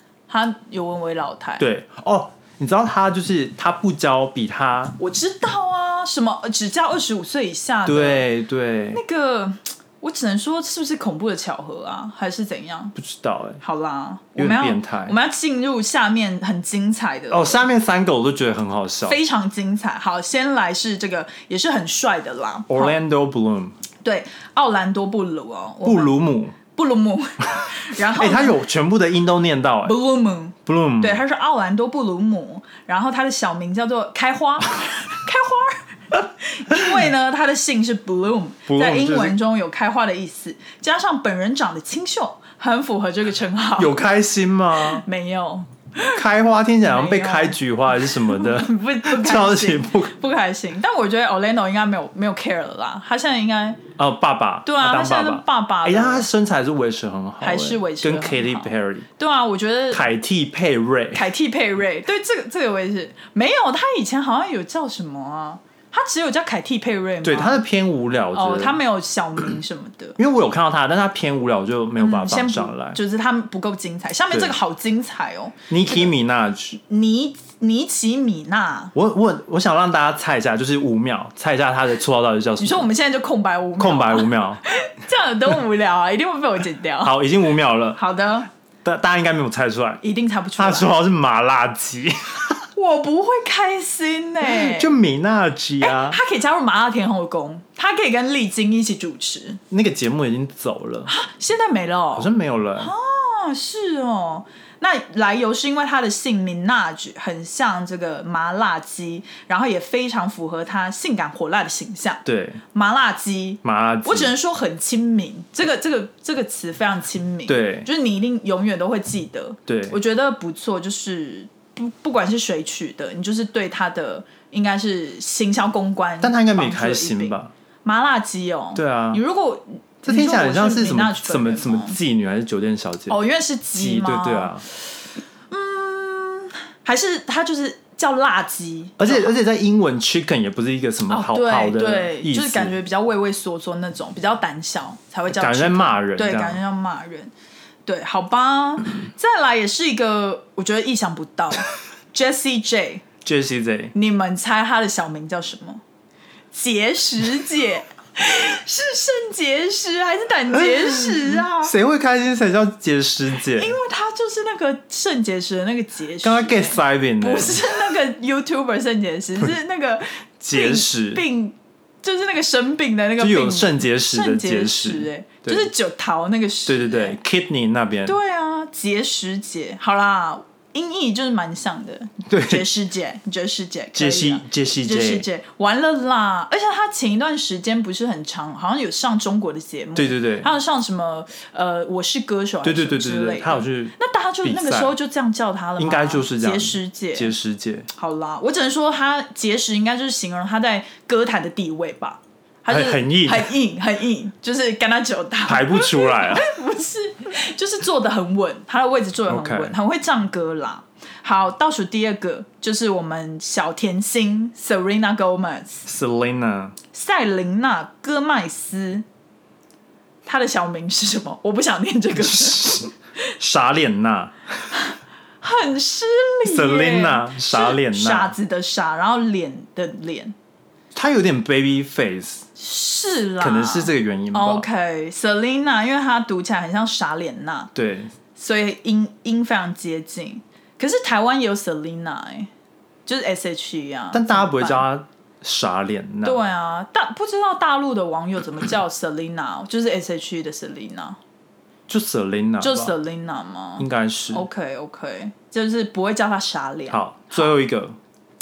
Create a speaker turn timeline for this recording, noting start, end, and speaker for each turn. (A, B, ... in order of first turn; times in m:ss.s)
0:00.3-0:01.6 A
0:01.6-0:05.0 B
0:05.0-0:08.3 A
0:07.8-0:09.0 B
0:08.9-0:13.0 A
0:13.0-0:13.6 B
0:13.6-0:17.6 A
0:14.4-0:15.2 B
0:17.3-0:19.2 B
0:19.1-0:23.0 A
0:22.7-0:23.8 B
0:24.0-0:28.6 A
0:25.8-0:26.6 B
0:28.1-0:30.0 B
0:29.8-0:44.0 A
0:30.7-0:31.2 B
0:38.7-0:39.4 B
0:43.8-0:45.0 B
0:44.8-0:46.2 A
0:46.1-0:50.1 B
0:46.8-0:53.8 A
0:54.0-0:59.1 B
0:54.7-0:56.3 A
0:57.4-1:00.1 A
0:59.9-1:01.3 B
1:01.1-1:07.6 A
1:07.2-1:08.8 B
1:08.3-1:10.2 A
1:10.2-1:13.0 B
1:12.0-1:16.1 A
1:15.7-1:16.8 B
1:16.8-1:18.9 A
1:18.9-1:22.9 B
1:22.6-1:27.2 A
1:23.8-1:24.6 B
1:27.0-1:28.0 B
1:28.0-1:28.5 A
1:28.8-1:30.0 B
1:30.0-1:30.9 A
1:30.6-1:32.6 B
1:32.8-1:34.9 A
1:34.4-1:36.2 B
1:35.8-1:39.6 A
1:39.7-1:41.1 B
1:41.1-2:12.0 A
1:42.2-1:42.9 B
1:52.2-1:52.6 B
1:53.6-1:54.3 B
1:57.5-1:57.9 B
1:59.7-2:00.0 B
2:06.2-2:07.5 B
2:08.8-2:09.2 B
2:10.0-2:13.2 B
2:13.1-2:14.6 A
2:13.8-2:14.6 B
2:15.5-2:19.4 A
2:19.0-2:22.8 B
2:21.1-2:27.3 A
2:25.3-2:26.6 B
2:27.9-2:33.0 A
2:33.2-2:33.9 B
2:33.9-2:35.8 A
2:36.5-2:41.7 A
2:40.7-2:43.8 B
2:43.4-2:57.2 A
2:46.2-2:47.6 B
2:50.4-2:51.2 B
2:53.2-2:55.7 B
2:56.7-2:58.2 B
2:58.1-3:17.3 A
3:02.3-3:02.6 B
3:03.9-3:05.3 B
3:10.0-3:10.5 B
3:12.6-3:15.0 B
3:15.8-3:17.9 B
3:17.9-3:35.9 A
3:22.7-3:23.5 B
3:25.5-3:26.4 B
3:29.3-3:29.7 B
3:35.9-3:36.8 B
3:36.9-3:39.0 A
3:40.3-3:42.9 A
3:42.2-3:44.8 B
3:45.4-3:50.4 A
3:46.4-3:48.3 B
3:50.9-3:52.5 B
3:52.6-3:57.7 A
3:53.4-3:54.7 B
3:57.8-3:58.1 B
3:58.4-4:02.5 A
4:03.1-4:04.8 A
4:04.1-4:06.4 B
4:06.2-4:11.2 A
4:11.9-4:12.9 B
4:12.6-4:17.5 A
4:13.8-4:14.5 B
4:16.9-4:18.0 B